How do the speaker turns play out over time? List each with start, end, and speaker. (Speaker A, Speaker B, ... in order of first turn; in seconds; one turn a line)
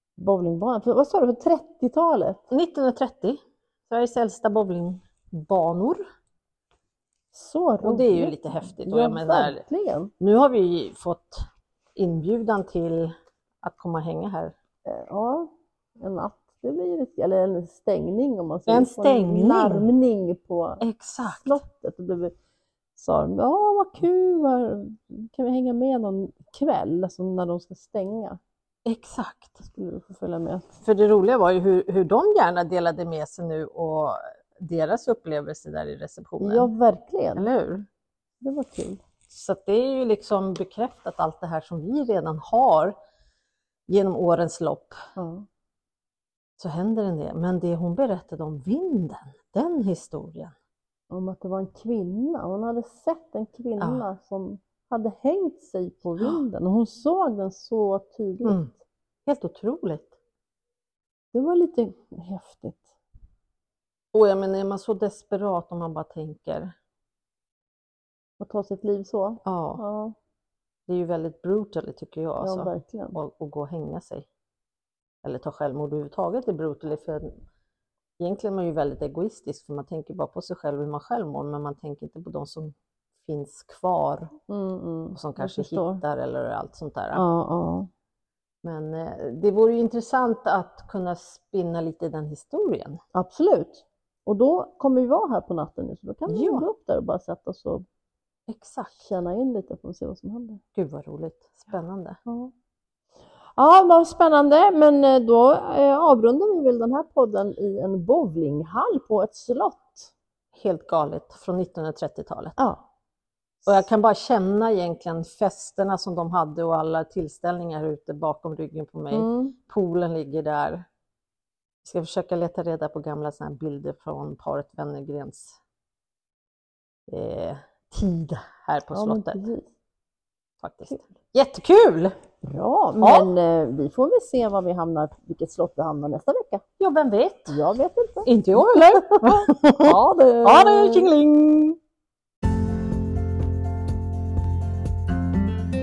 Speaker A: 0.2-2.4
Speaker B: 2.5-6.0
Speaker A: 7.3-10.1
Speaker B: 7.8-9.6
Speaker B: 10.2-14.5
Speaker A: 14.8-22.3
Speaker B: 18.7-19.9
Speaker B: 20.8-21.6
Speaker A: 22.9-28.4
Speaker B: 28.8-29.6
Speaker A: 29.6-30.8
Speaker B: 30.8-36.7
Speaker A: 36.4-37.5
Speaker B: 37.4-37.9
Speaker A: 38.4-39.0
Speaker B: 39.3-43.0
Speaker B: 43.9-45.0
Speaker A: 45.1-45.5
Speaker B: 46.6-50.5
Speaker A: 51.1-58.6
Speaker B: 53.8-54.0
Speaker B: 58.4-58.7
Speaker B: 59.2-60.1
Speaker A: 61.3-62.9
Speaker B: 64.1-66.7
Speaker A: 68.4-70.1
Speaker B: 69.4-69.8
Speaker B: 70.9-74.3
Speaker A: 72.4-73.2
Speaker B: 75.2-77.4
Speaker B: 78.2-84.3
Speaker A: 84.5-86.0
Speaker B: 85.1-87.2
Speaker A: 87.1-87.9
Speaker B: 88.6-93.0
Speaker A: 93.1-97.8
Speaker B: 96.3-96.6
Speaker B: 98.5-99.1
Speaker A: 98.9-100.6
Speaker B: 100.7-102.2
Speaker A: 102.2-102.5
Speaker A: 103.5-110.1
Speaker B: 110.5-112.5
Speaker A: 112.6-112.8
Speaker B: 113.7-120.8
Speaker A: 119.1-119.6
Speaker B: 121.8-125.6
Speaker B: 127.1-129.4
Speaker A: 128.9-129.7
Speaker B: 130.6-132.1
Speaker A: 132.4-136.6
Speaker B: 133.0-133.3
Speaker B: 136.8-137.6
Speaker A: 137.5-141.1
Speaker B: 138.2-141.8